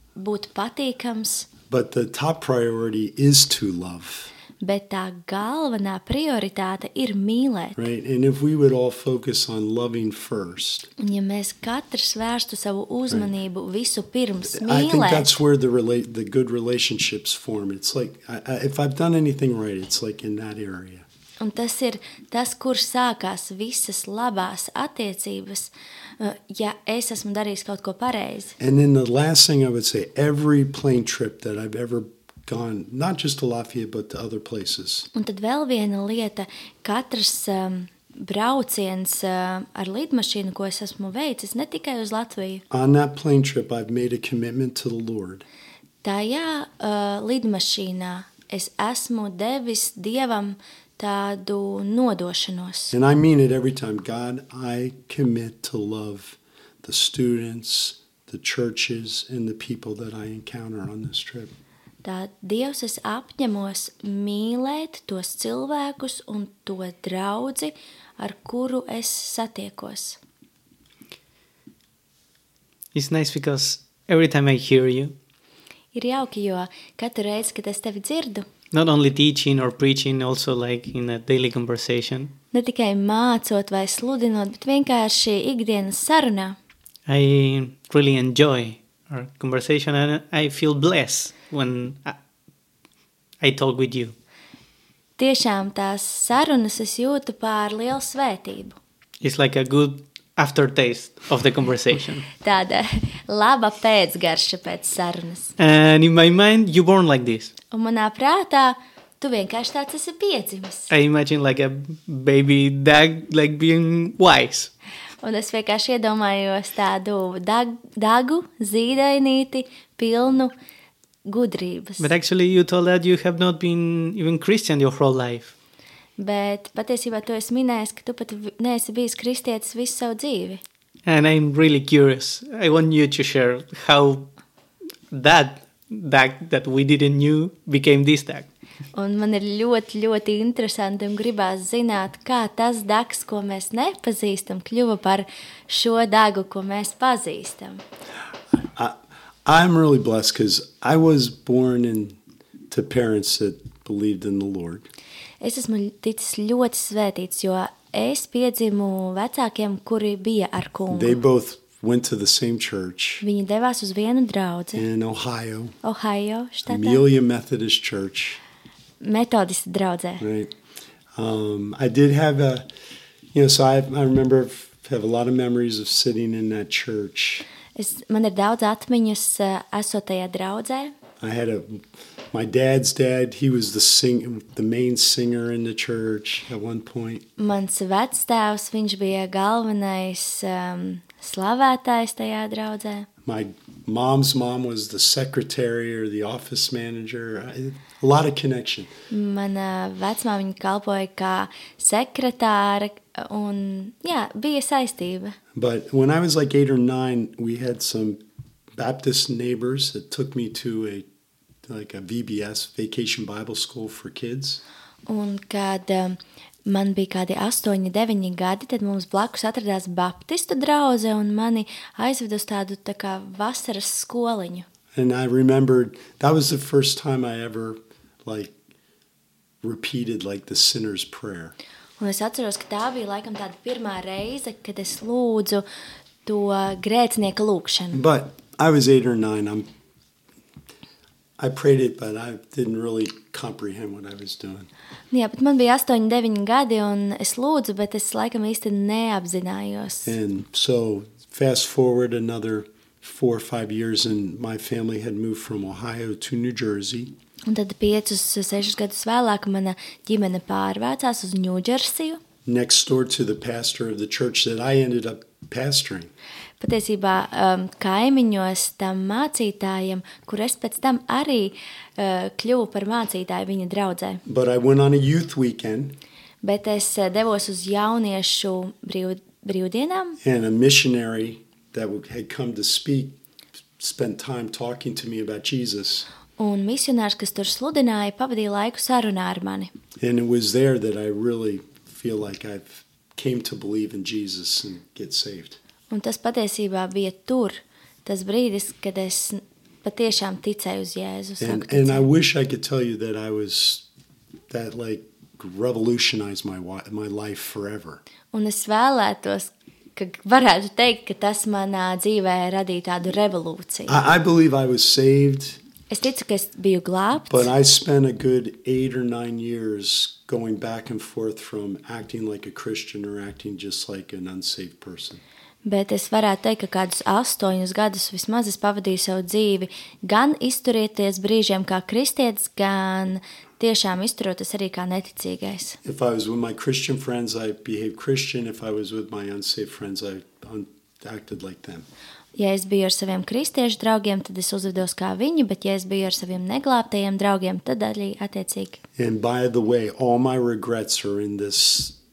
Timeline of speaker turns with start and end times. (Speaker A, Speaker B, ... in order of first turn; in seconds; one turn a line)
Speaker A: 0.1-1.5
Speaker B: 1.7-4.3
Speaker A: 4.6-7.8
Speaker B: 7.8-10.9
Speaker A: 11.0-15.3
Speaker B: 14.5-21.1
Speaker A: 21.4-28.6
Speaker B: 28.6-35.1
Speaker A: 35.1-42.6
Speaker B: 42.7-45.5
Speaker A: 46.0-52.9
Speaker B: 52.9-61.5
Speaker A: 62.0-70.2
Speaker C: 72.9-75.1
Speaker A: 75.9-78.5
Speaker C: 78.7-82.3
Speaker A: 82.5-86.6
Speaker C: 87.1-92.2
Speaker C: 93.4-94.1
Speaker A: 95.2-98.8
Speaker C: 99.2-102.3
Speaker A: 102.4-105.5
Speaker C: 105.6-107.5
Speaker A: 107.7-110.9
Speaker C: 110.9-114.7
Speaker A: 115.2-120.5
Speaker A: 121.3-122.1
Speaker C: 122.0-125.5
Speaker A: 126.2-130.6
Speaker C: 131.1-134.3
Speaker C: 135.1-138.5
Speaker A: 138.9-147.8
Speaker B: 148.5-152.2
Speaker B: 152.7-154.9
Speaker A: 155.4-161.2
Speaker B: 160.9-163.2
Speaker A: 163.2-164.8
Speaker B: 164.8-165.8
Speaker A: 165.8-167.0
Speaker B: 166.7-168.4
Speaker A: 169.0-170.2
Speaker B: 170.2-170.5
Speaker B: 171.1-172.7
Speaker B: 173.3-177.5
Speaker A: 177.8-180.9
Speaker B: 181.2-187.3
Speaker A: 187.4-193.1
Speaker B: 193.2-198.9
Speaker A: 199.1-205.4
Speaker B: 205.6-208.2
Speaker B: 208.8-211.1
Speaker B: 211.7-214.6
Speaker A: 215.1-224.7
Speaker B: 224.9-228.6
Speaker B: 229.6-231.6
Speaker A: 232.0-235.6
Speaker A: 236.3-238.0
Speaker B: 237.9-239.7
Speaker B: 241.4-244.7
Speaker A: 245.1-250.1
Speaker B: 250.1-257.1
Speaker A: 257.5-262.2
Speaker B: 262.4-266.1
Speaker A: 266.6-274.2
Speaker B: 274.3-276.0
Speaker A: 276.4-280.2
Speaker B: 280.2-283.1
Speaker B: 283.8-286.1
Speaker A: 286.4-289.7
Speaker B: 290.0-295.6
Speaker A: 295.9-302.1
Speaker B: 301.4-303.9
Speaker B: 304.5-308.0
Speaker A: 308.3-314.0
Speaker B: 313.9-315.6
Speaker A: 315.9-317.5
Speaker B: 317.3-325.2
Speaker A: 325.6-335.8
Speaker B: 335.9-341.9
Speaker A: 342.4-348.8
Speaker B: 349.0-352.0